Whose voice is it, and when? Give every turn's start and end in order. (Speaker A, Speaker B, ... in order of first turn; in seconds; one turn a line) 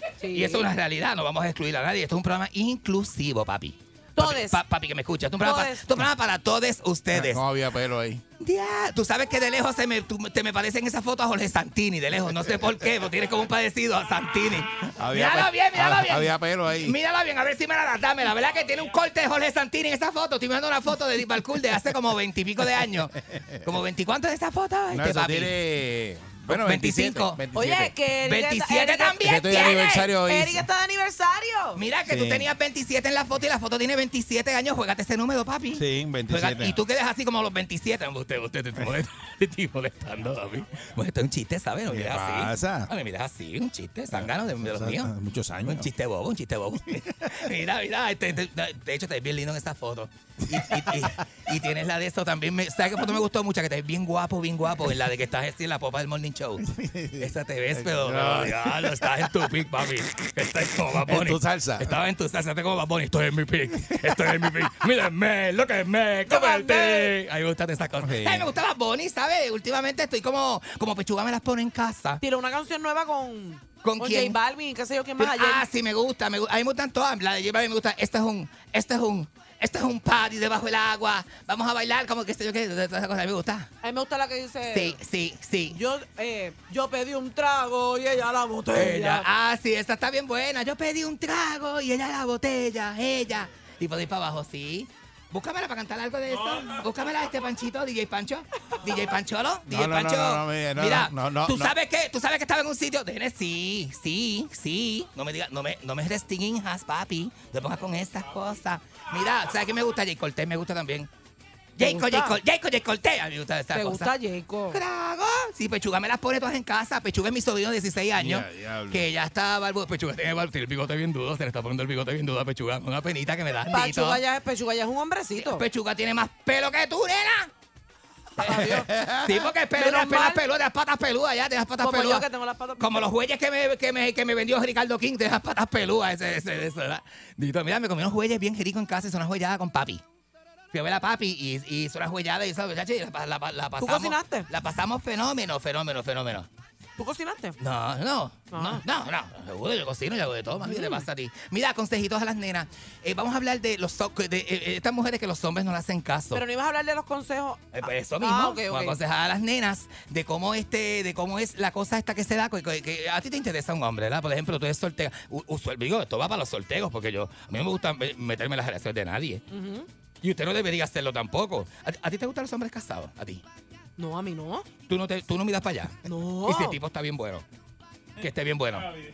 Speaker A: 0.2-0.7
Speaker B: 0.3-7.4
Speaker A: 4.2-4.6
Speaker A: 5.4-5.8
Speaker C: 7.1-8.2
Speaker B: 8.4-25.5
Speaker C: 15.0-16.9
Speaker C: 24.9-27.9
Speaker B: 26.5-27.4
Speaker A: 27.5-31.8
Speaker B: 28.2-30.1
Speaker C: 29.2-30.6
Speaker B: 31.8-45.1
Speaker C: 32.1-32.5
Speaker C: 35.7-36.8
Speaker C: 41.9-42.9
Speaker C: 44.1-45.9
Speaker B: 45.6-56.6
Speaker C: 50.5-51.2
Speaker C: 56.6-59.3
Speaker B: 57.2-72.2
Speaker C: 61.0-62.0
Speaker A: 66.3-67.1
Speaker C: 68.0-68.5
Speaker A: 72.2-75.6
Speaker B: 73.8-74.4
Speaker B: 75.2-83.7
Speaker A: 83.8-85.0
Speaker B: 84.7-85.8
Speaker A: 85.7-89.2
Speaker B: 88.7-111.1
Speaker C: 99.7-101.7
Speaker B: 111.8-114.1
Speaker A: 111.8-112.4
Speaker A: 113.7-114.8
Speaker B: 114.7-124.2
Speaker C: 118.2-119.0
Speaker A: 123.7-125.6
Speaker B: 125.4-127.5
Speaker A: 128.4-128.9
Speaker C: 128.4-129.5
Speaker B: 128.5-132.2
Speaker A: 129.7-130.4
Speaker A: 131.8-133.1
Speaker B: 132.8-140.0
Speaker B: 140.7-146.5
Speaker A: 143.8-144.5
Speaker A: 147.0-147.6
Speaker B: 147.6-156.4
Speaker A: 148.5-148.8
Speaker A: 150.6-151.0
Speaker A: 156.3-159.0
Speaker B: 157.7-169.4
Speaker A: 169.5-169.9
Speaker B: 170.2-173.4
Speaker A: 174.0-174.7
Speaker B: 174.9-177.4
Speaker A: 176.0-176.8
Speaker B: 178.2-178.9